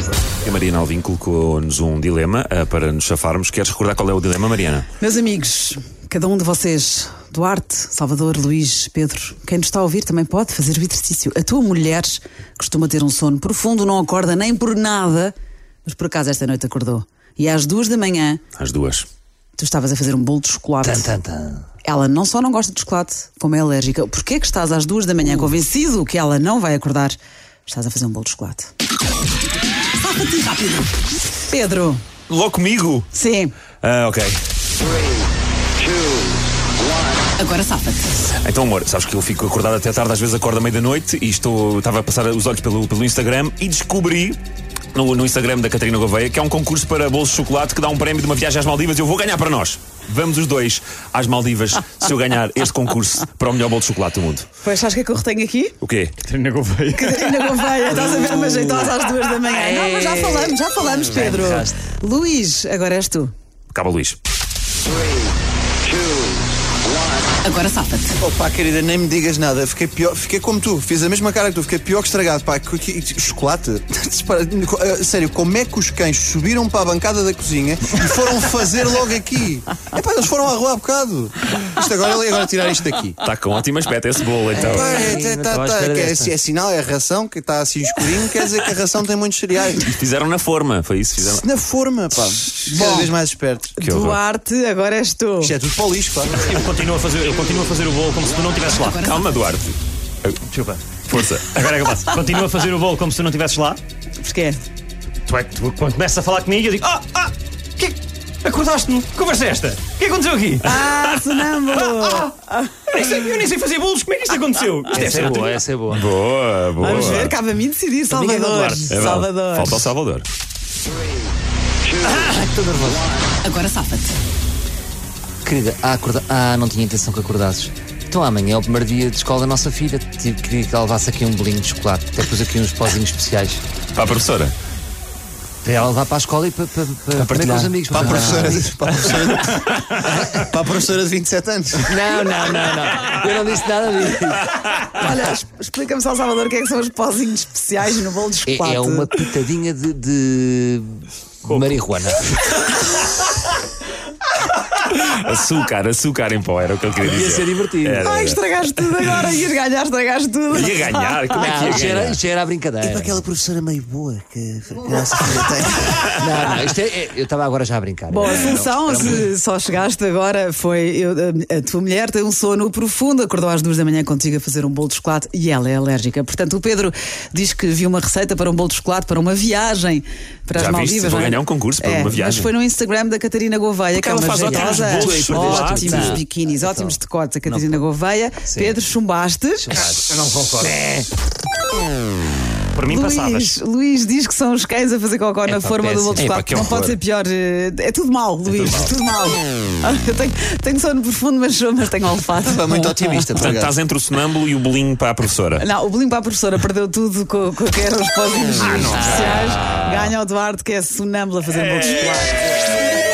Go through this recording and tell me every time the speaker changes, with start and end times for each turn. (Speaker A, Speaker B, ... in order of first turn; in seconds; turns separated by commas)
Speaker A: 0.4-4.8, Speaker B: 5.0-18.4, Speaker A: 18.6-19.1, Speaker B: 19.6-21.1, Speaker C: 20.8-21.7, Speaker B: 21.8-28.7, Speaker B: 30.0-32.0, Speaker A: 32.3-33.1, Speaker B: 33.1-33.5, Speaker A: 33.8-34.4, Speaker B: 37.3-38.1, Speaker A: 38.4-44.4, Speaker A: 44.9-54.5, Speaker B: 54.6-55.8, Speaker A: 55.8-56.1, Speaker D: 56.2-57.5, Speaker B: 56.9-63.3, Speaker C: 59.5-61.8, Speaker A: 63.7-64.2, Speaker B: 67.4-68.2, Speaker E: 68.2-83.2, Speaker A: 83.2-85.0, Speaker C: 84.5-86.4, Speaker E: 84.6-89.9, Speaker A: 89.8-91.4, Speaker E: 91.2-93.7, Speaker B: 92.7-93.2, Speaker B: 93.8-95.5, Speaker A: 93.8-94.2, Speaker E: 95.4-96.6, Speaker D: 96.4-99.0, Speaker B: 98.7-99.3, Speaker A: 99.0-100.4, Speaker D: 100.5-100.8, Speaker A: 101.1-101.6, Speaker D: 101.4-103.8, Speaker B: 104.2-104.6, Speaker D: 105.3-111.1, Speaker B: 110.6-112.8, Speaker D: 111.9-112.2, Speaker D: 112.9-115.6, Speaker C: 114.9-116.0, Speaker A: 115.9-117.3, Speaker B: 116.8-119.9, Speaker C: 118.1-119.0, Speaker A: 118.9-120.2, Speaker C: 122.0-123.2, Speaker B: 123.4-124.2, Speaker C: 125.4-133.6, Speaker A: 133.9-134.5, Speaker C: 135.6-140.5, Speaker A: 137.1-138.6, Speaker E: 137.9-142.0, Speaker C: 141.8-144.6, Speaker B: 144.8-149.2, Speaker C: 148.4-152.6, Speaker A: 154.8-158.4, Speaker C: 157.0-158.1, Speaker B: 158.0-161.2, Speaker A: 160.5-162.2, Speaker C: 161.3-169.2, Speaker E: 162.8-163.2, Speaker E: 164.8-165.9, Speaker B: 168.1-189.7, Speaker A: 180.5-182.5, Speaker A: 183.9-186.2, Speaker C: 184.4-186.9, Speaker C: 187.5-187.8, Speaker C: 188.5-188.8, Speaker C: 189.6-191.1, Speaker D: 192.7-193.6, Speaker B: 192.8-203.2, Speaker C: 195.4-196.3, Speaker A: 196.2-197.0, Speaker A: 198.5-198.9, Speaker E: 202.4-203.7, Speaker A: 203.3-205.6, Speaker B: 205.6-212.7, Speaker C: 208.7-209.8